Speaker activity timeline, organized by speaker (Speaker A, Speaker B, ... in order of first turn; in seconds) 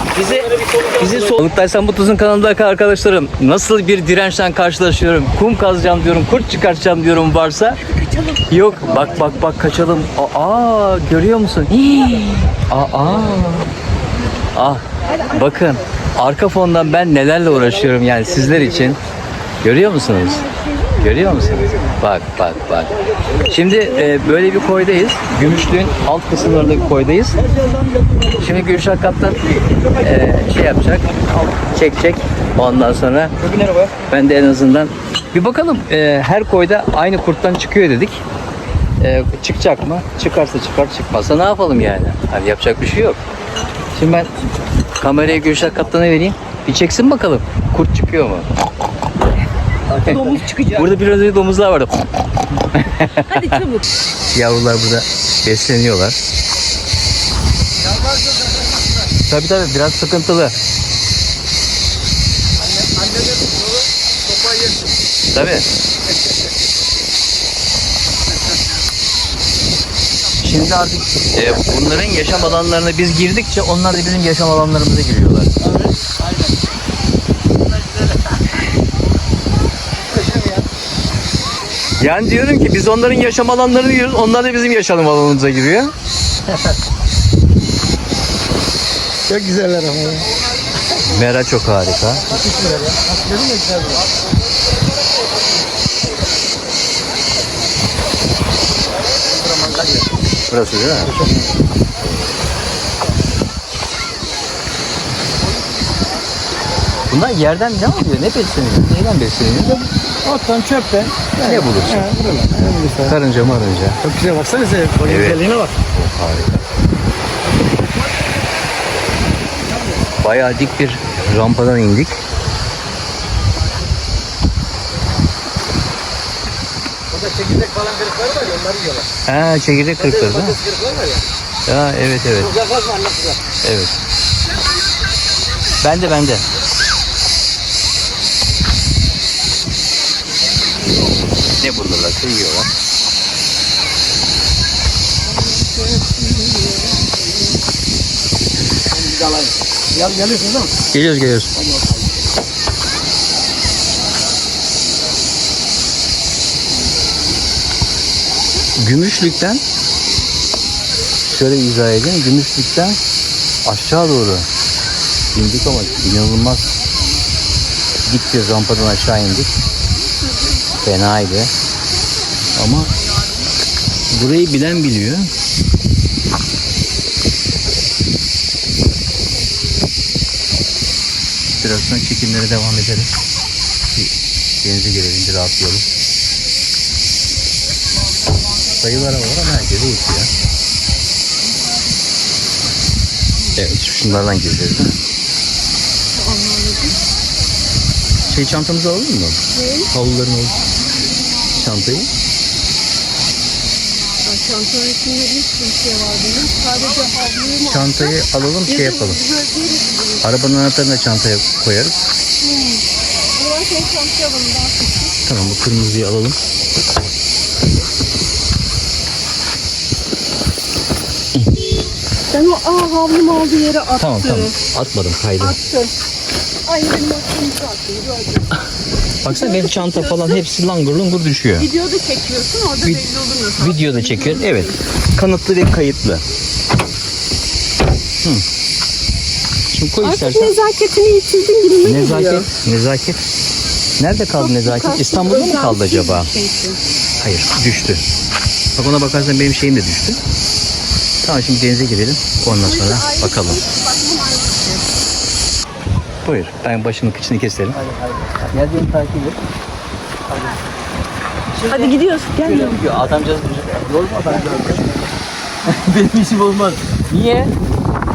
Speaker A: 0.1-7.8, 8.5-13.7, 14.5-19.0, 19.6-20.4, 21.0-27.4, 28.4-38.2, 39.0-43.2, 43.9-44.3, 45.0-48.5, 49.9-51.9, 52.7-53.6, 54.3-56.2, 59.3-60.5, 65.3-65.7, 70.4-75.5, 82.0-85.9, 91.0-92.6, 100.5-101.3, 107.1-109.9, 111.4-112.2, 113.0-114.1, 115.0-116.7, 120.2-122.2, 129.2-130.6, 131.7-132.6, 133.6-133.9, 135.8-136.4, 141.6-142.7, 150.9-151.5, 158.8-159.6, 161.3-163.0, 163.6-164.4, 165.3-166.7, 168.0-169.5, 170.8-171.5, 172.5-172.9, 174.1-175.3, 181.6-183.1, 184.6-185.8, 188.8-190.3, 193.6-194.9, 198.3-200.6, 201.6-202.1, 207.6-209.2, 210.2-211.9, 215.2-216.4, 224.0-225.6, 229.2-231.7, 232.8-236.2, 239.7-240.6, 241.8-243.2, 244.0-246.3, 247.2-248.0, 248.8-250.2, 251.2-253.6, 256.2-257.8, 258.5-259.4, 261.5-265.0, 265.6-267.5
Speaker B: 50.0-50.9, 53.3-53.9, 196.3-196.9, 199.6-199.9, 204.2-208.1, 208.7-210.2, 213.4-214.7, 222.3-224.5, 225.4-225.9, 226.7-228.5, 229.3-230.4, 231.6-234.7, 240.0-242.5, 244.3-246.8, 252.5-254.5, 261.7-262.8
Speaker C: 89.5-90.2, 110.3-111.1, 112.2-113.0, 114.2-115.1, 127.4-129.0, 130.6-131.2, 132.7-133.2, 150.0-150.6